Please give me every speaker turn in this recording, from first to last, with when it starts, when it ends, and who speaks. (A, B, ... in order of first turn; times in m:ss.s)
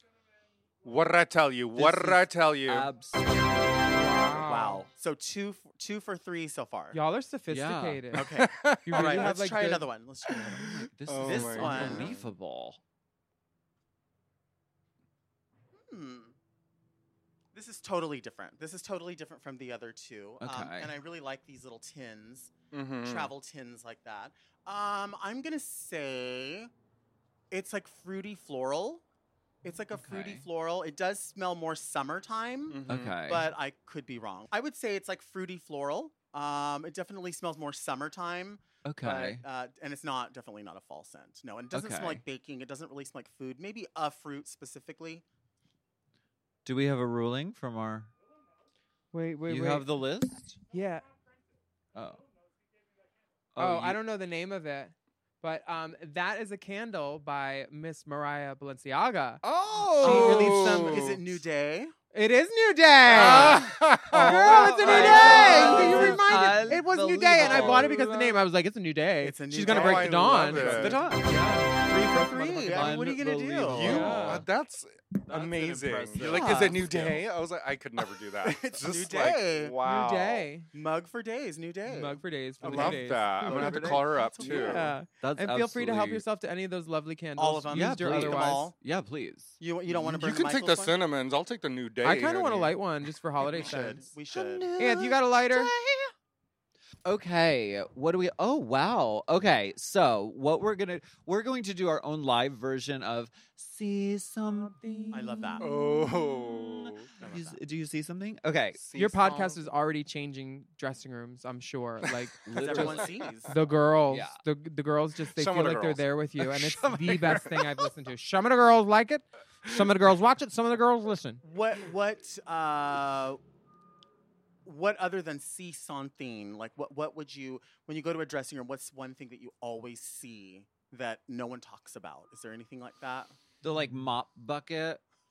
0:00.8-0:02.9 A
0:01.8-0:04.3 B
0:03.9-0:04.9 C
0:04.4-0:07.0 D
0:06.9-0:08.3 C
0:07.5-0:08.2 B
0:08.1-0:10.6 D
0:08.4-0:09.2 A
0:08.8-0:09.8 C
0:09.0-0:09.4 B
0:10.3-0:12.8 B
0:11.1-0:12.2 A
0:11.2-0:12.2 D
0:15.7-0:16.3 D
0:17.5-0:26.7 D
0:20.4-0:20.9 B
0:22.7-0:23.3 A
0:27.5-0:29.0 D
0:29.6-0:45.2 D
0:29.9-0:30.4 B
0:32.7-0:33.2 A
0:32.9-0:33.5 B
0:38.8-0:39.4 B
0:41.7-0:42.2 B
0:46.6-0:48.1 B
0:49.1-0:49.9 C
0:49.5-0:50.6 B
0:50.7-0:51.1 C
0:51.9-0:52.2 B
0:53.5-0:54.0 B
0:53.6-0:59.4 C
0:59.4-1:00.8 B
1:00.0-1:01.1 C
1:00.0-1:01.2 A
1:00.0-1:02.0 D
1:02.1-1:13.1 C
1:03.1-1:06.0 A
1:03.1-1:08.1 B
1:05.0-1:06.0 D
1:07.5-1:08.1 A
1:09.2-1:11.1 D
1:09.7-1:11.0 A
1:10.3-1:11.3 B
1:11.9-1:14.2 D
1:12.6-1:14.4 B
1:13.7-1:20.4 A
1:13.8-1:14.4 C
1:15.3-1:17.2 B
1:16.3-1:17.0 D
1:18.1-1:19.8 D
1:19.8-1:20.7 C
1:20.7-1:24.9 D
1:21.9-1:28.7 C
1:22.6-1:24.9 A
1:22.7-1:26.2 B
1:27.4-1:28.7 D
1:27.7-1:29.6 B
1:29.6-1:31.0 D
1:29.9-1:32.8 A
1:32.0-1:34.1 C
1:33.4-1:34.8 D
1:34.5-1:35.1 B
1:34.8-1:35.7 C
1:37.0-1:48.8 B
1:44.4-1:45.5 C
1:45.1-1:45.7 D
1:45.6-1:47.1 A
1:47.1-1:47.6 D
1:48.8-1:49.6 A
1:48.9-1:52.4 C
1:52.4-1:53.2 B
1:52.5-1:53.5 D
1:53.5-2:01.4 C
1:54.1-1:54.4 B
1:55.4-1:56.0 A
1:56.8-1:57.1 B
1:57.1-1:57.5 A
2:01.4-2:03.4 D
2:04.6-2:13.3 D
2:13.6-2:15.0 B